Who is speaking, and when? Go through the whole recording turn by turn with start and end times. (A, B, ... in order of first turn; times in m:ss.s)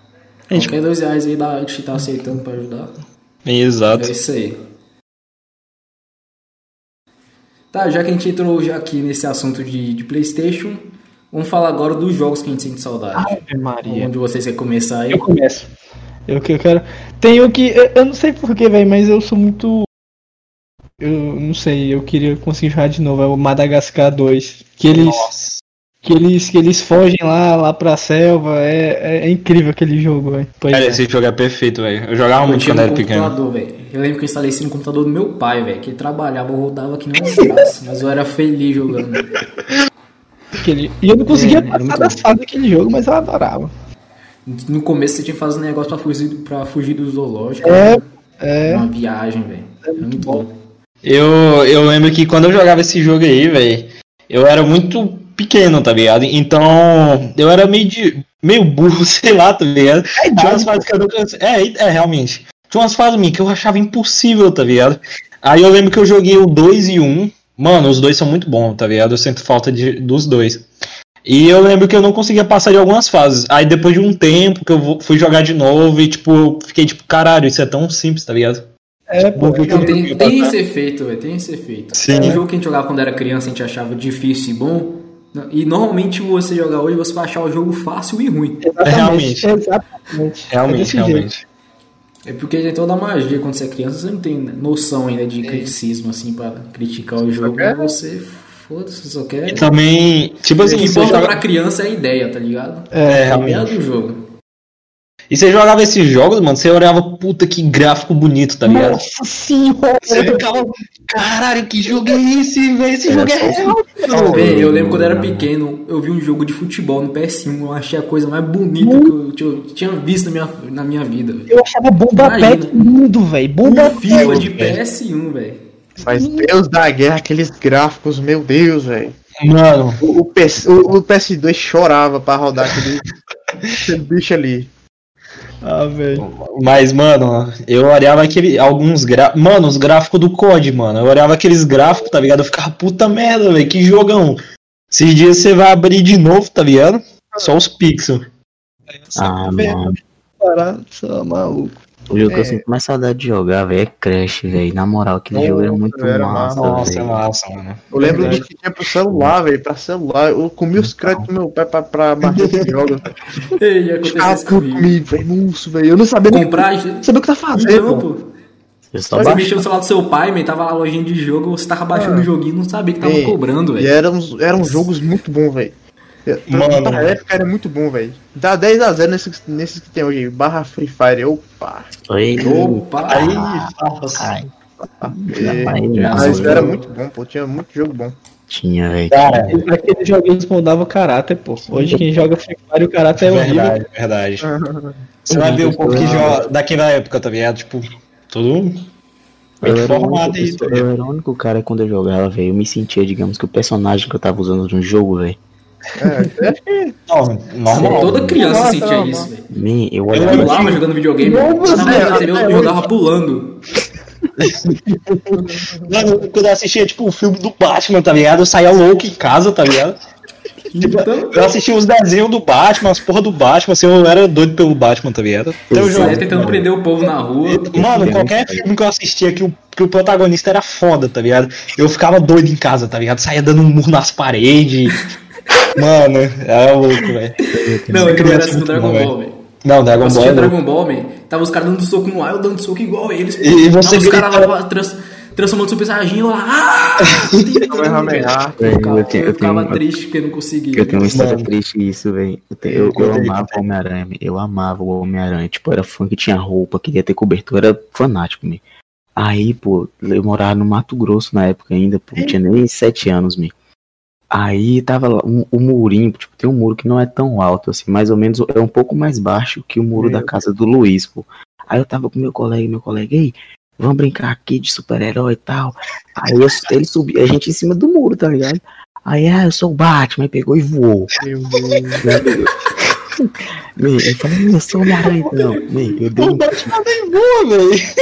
0:00.5-0:03.0 A
0:03.4-0:04.1 B
0:04.0-0:04.6 A
0:07.7-0:15.2 A
0:13.1-0:14.1 C
0:15.1-0:15.7 C
0:16.3-0:19.9 C
0:21.0-0:25.3 C
0:24.9-0:25.6 B
0:26.0-0:31.0 C
0:30.7-0:33.4 B
0:32.4-0:39.3 A
0:40.6-0:43.7 C
0:41.3-0:42.2 A
0:44.4-0:48.1 A
0:47.6-0:48.9 C
0:48.6-0:50.5 A
0:49.9-0:50.4 C
0:51.0-1:10.7 B
1:00.2-1:00.9 C
1:11.2-1:18.7 B
1:19.1-1:20.0 C
1:19.4-1:20.6 B
1:19.6-1:28.6 A
1:21.9-1:22.4 B
1:28.6-1:31.3 C
1:28.8-1:29.5 B
1:30.5-1:31.4 B
1:32.3-1:39.7 A
1:37.4-1:37.9 D
1:39.5-1:41.4 B
1:40.6-1:44.2 A
1:42.9-1:43.6 C
1:43.1-1:43.7 B
1:45.3-1:49.0 B
1:48.6-1:50.5 C
1:50.0-1:54.4 B
1:53.1-1:55.5 E
1:53.6-1:54.4 C
1:54.3-2:01.5 A
1:58.8-1:59.2 C
2:01.5-2:04.5 C
2:02.1-2:02.9 A
2:03.6-2:05.6 A
2:04.1-2:04.8 B
2:06.0-2:06.5 C
2:06.0-2:09.2 D
2:09.4-2:10.0 B
2:10.0-2:13.1 D
2:13.8-2:14.7 D
2:15.6-2:16.3 C
2:16.2-2:28.2 B
2:28.9-2:31.8 C
2:29.2-2:30.0 E
2:32.1-2:37.2 E
2:32.2-2:32.6 D
2:35.3-2:36.6 D
2:36.6-2:38.4 B
2:37.9-2:43.2 D
2:40.8-2:41.3 E
2:42.3-2:42.7 B
2:43.6-2:45.0 A
2:44.0-2:48.1 D
2:46.3-2:48.3 A
2:48.9-2:49.6 E
2:49.1-2:53.9 A
2:49.2-2:49.4 D
2:51.9-2:52.3 D
2:53.0-2:55.7 D
2:56.2-3:01.9 D
2:56.5-2:57.2 B
3:02.1-3:04.5 E
3:02.4-3:03.4 A
3:03.1-3:04.3 B
3:05.0-3:08.2 D
3:05.0-3:06.7 E
3:05.9-3:06.9 A
3:08.5-3:09.6 E
3:09.1-3:09.6 B
3:09.5-3:13.8 C
3:11.7-3:12.1 E
3:13.2-3:14.5 B
3:14.4-3:15.0 D
3:15.2-3:18.8 B
3:15.3-3:16.5 E
3:15.9-3:16.4 D
3:19.6-3:20.9 B
3:19.6-3:25.4 E
3:26.0-3:27.0 D
3:27.1-3:28.1 B
3:27.7-3:29.5 A
3:27.7-3:28.4 E
3:27.8-3:29.3 D
3:29.5-3:30.8 E
3:30.1-3:30.8 B
3:30.2-3:33.6 A
3:31.4-3:32.2 C
3:31.6-3:32.9 D
3:31.6-3:32.2 B
3:34.4-3:40.0 B
3:35.5-3:35.9 D
3:40.7-3:41.5 A
3:40.8-3:46.6 B
3:45.7-3:46.6 E
3:45.9-3:47.8 A
3:47.5-3:55.0 B
3:47.7-3:48.7 E
3:55.6-3:57.4 B
3:57.5-3:58.3 E
3:57.9-3:59.4 A
3:58.0-3:59.1 B
3:59.6-4:00.6 B
4:00.0-4:11.2 A
4:03.4-4:04.5 B
4:07.7-4:08.6 D
4:08.6-4:09.8 E
4:10.7-4:18.6 E
4:11.0-4:11.5 B
4:12.7-4:13.6 B
4:19.2-4:23.5 E
4:24.3-4:41.1 E
4:30.0-4:30.4 D
4:41.2-4:42.0 D
4:42.0-4:46.8 E
4:44.9-4:45.2 B
4:46.1-4:47.8 B